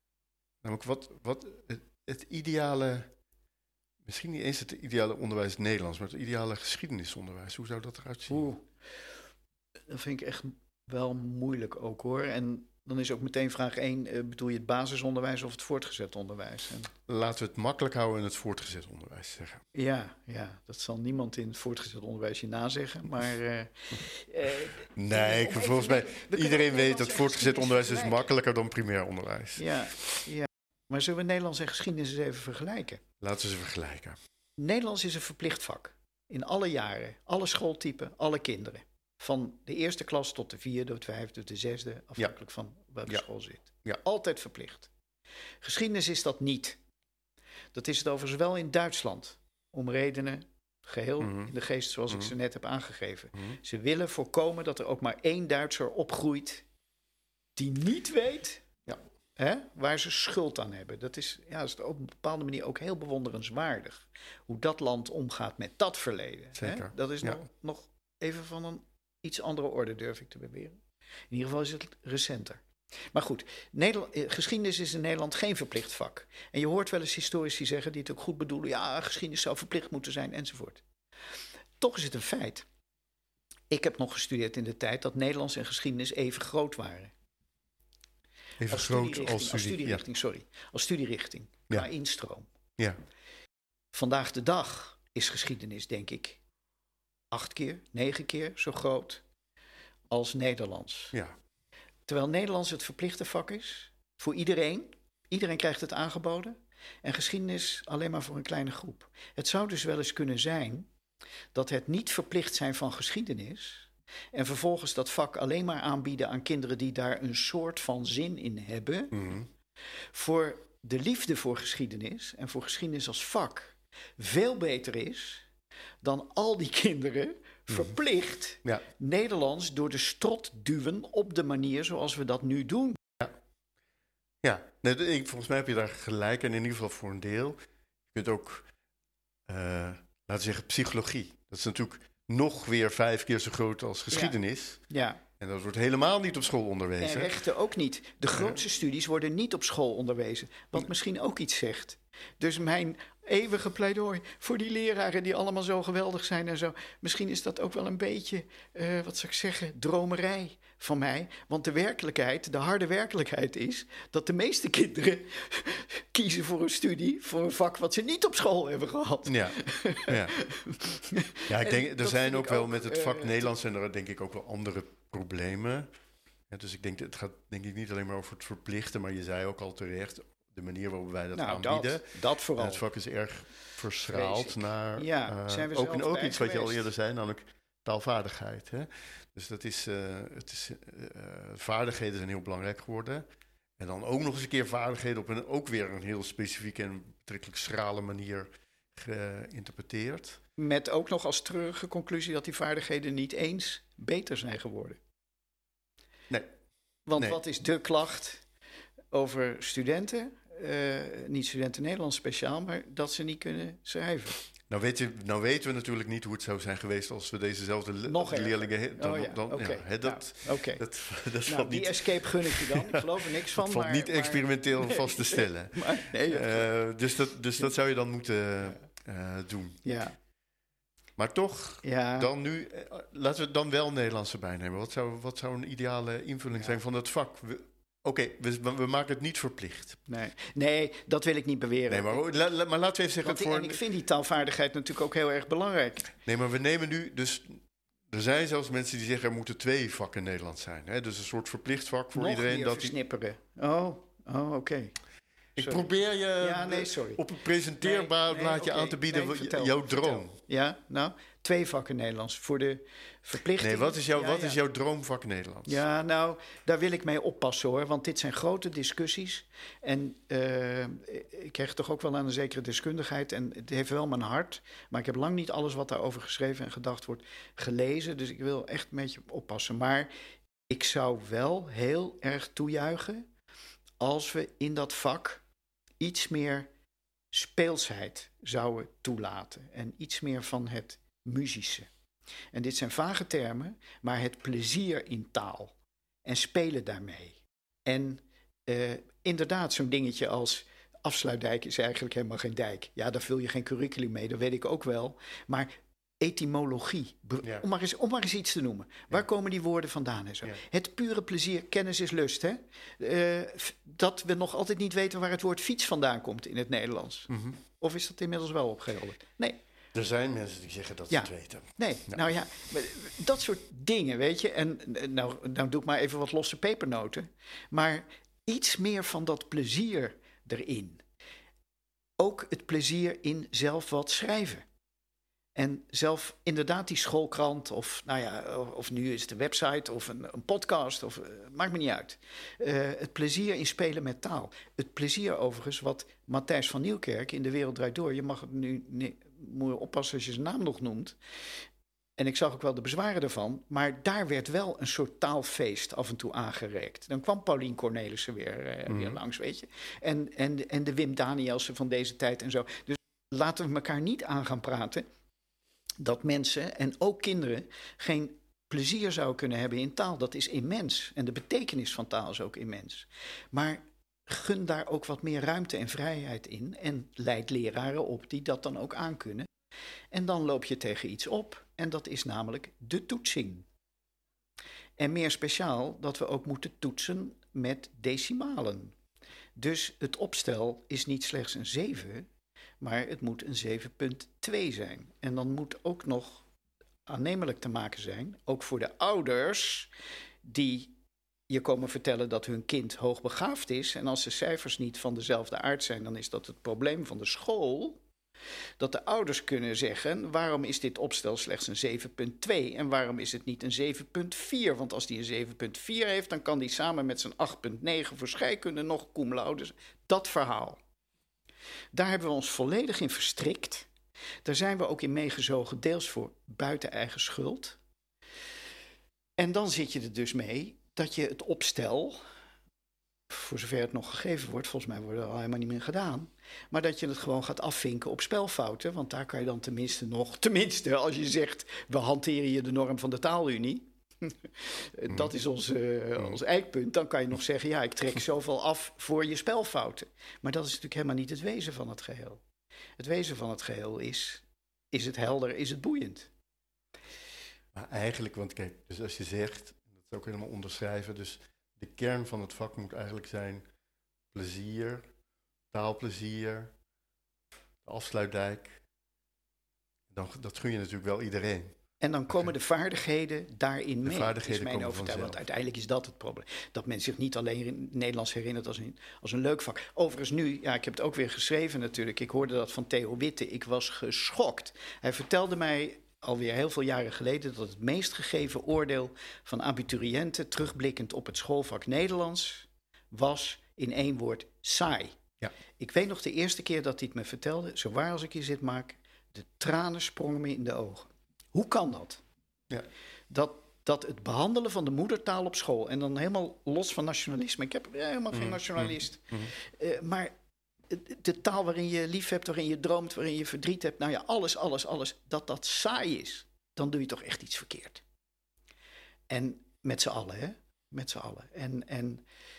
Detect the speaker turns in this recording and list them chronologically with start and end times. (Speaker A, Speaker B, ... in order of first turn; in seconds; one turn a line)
Speaker A: 0.6-3.1
Speaker A: 4.0-8.5
Speaker B: 8.3-8.6
Speaker B: 9.9-16.9
Speaker A: 17.1-19.6
Speaker B: 19.7-28.3
Speaker A: 24.9-30.2
Speaker B: 29.6-33.0
Speaker A: 33.2-34.2
Speaker B: 34.6-44.9
Speaker B: 45.6-46.8
Speaker B: 47.7-56.6
Speaker A: 51.2-51.5
Speaker B: 57.5-58.6
Speaker B: 59.4-70.8
Speaker A: 66.5-67.4
Speaker B: 71.3-80.8
Speaker B: 81.8-82.7
Speaker B: 83.7-87.1
Speaker A: 88.6-90.0
Speaker B: 88.7-92.5
Speaker B: 93.9-96.4
Speaker B: 97.3-99.2
Speaker B: 100.1-101.1
Speaker B: 102.1-110.9
Speaker B: 111.5-119.2
Speaker A: 119.1-119.5
Speaker B: 120.1-125.5
Speaker B: 126.0-133.0
Speaker A: 134.4-137.6
Speaker A: 138.1-138.7
Speaker A: 139.5-144.8
Speaker B: 144.9-145.2
Speaker A: 145.4-147.4
Speaker B: 147.0-173.5
Speaker A: 169.3-170.3
Speaker A: 171.5-175.9
Speaker A: 176.5-193.2
Speaker B: 181.3-182.8
Speaker B: 184.1-186.9
Speaker A: 193.8-200.4
Speaker B: 200.6-205.0
Speaker B: 207.1-208.4
Speaker B: 209.1-214.4
Speaker A: 214.7-229.8
Speaker B: 218.1-220.8
Speaker B: 221.4-226.7
Speaker B: 229.8-230.1
Speaker A: 231.2-240.0
Speaker B: 231.8-232.3
Speaker B: 240.1-242.2
Speaker A: 241.9-243.8
Speaker B: 243.2-246.1
Speaker A: 246.2-252.9
Speaker B: 252.1-254.9
Speaker A: 255.6-260.4
Speaker B: 255.6-255.8
Speaker B: 256.4-257.2
Speaker B: 257.8-264.6
Speaker A: 263.6-265.8
Speaker B: 265.6-280.1
Speaker B: 280.7-283.2
Speaker B: 284.0-285.4
Speaker B: 286.0-286.7
Speaker B: 287.3-291.9
Speaker B: 292.5-319.6
Speaker A: 317.3-317.6
Speaker A: 319.9-322.2
Speaker B: 321.1-331.0
Speaker B: 332.2-334.6
Speaker B: 335.5-351.2
Speaker B: 352.2-365.1
Speaker A: 358.9-359.2
Speaker B: 366.0-379.5
Speaker B: 380.1-383.7
Speaker B: 385.0-388.9
Speaker B: 389.6-392.3
Speaker B: 392.8-396.4
Speaker B: 397.1-399.9
Speaker B: 400.4-400.9
Speaker B: 401.5-408.0
Speaker B: 408.8-420.8
Speaker B: 421.9-423.9
Speaker B: 424.4-427.8
Speaker B: 429.4-432.2
Speaker B: 433.3-452.4
Speaker B: 453.0-456.3
Speaker A: 457.7-463.6
Speaker A: 464.3-465.1
Speaker A: 465.7-466.7
Speaker A: 467.8-468.8
Speaker A: 470.1-471.7
Speaker B: 472.0-495.1
Speaker A: 474.0-475.4
Speaker B: 495.8-502.2
Speaker B: 503.3-510.3
Speaker A: 508.3-509.5
Speaker B: 510.9-518.0
Speaker B: 519.3-522.2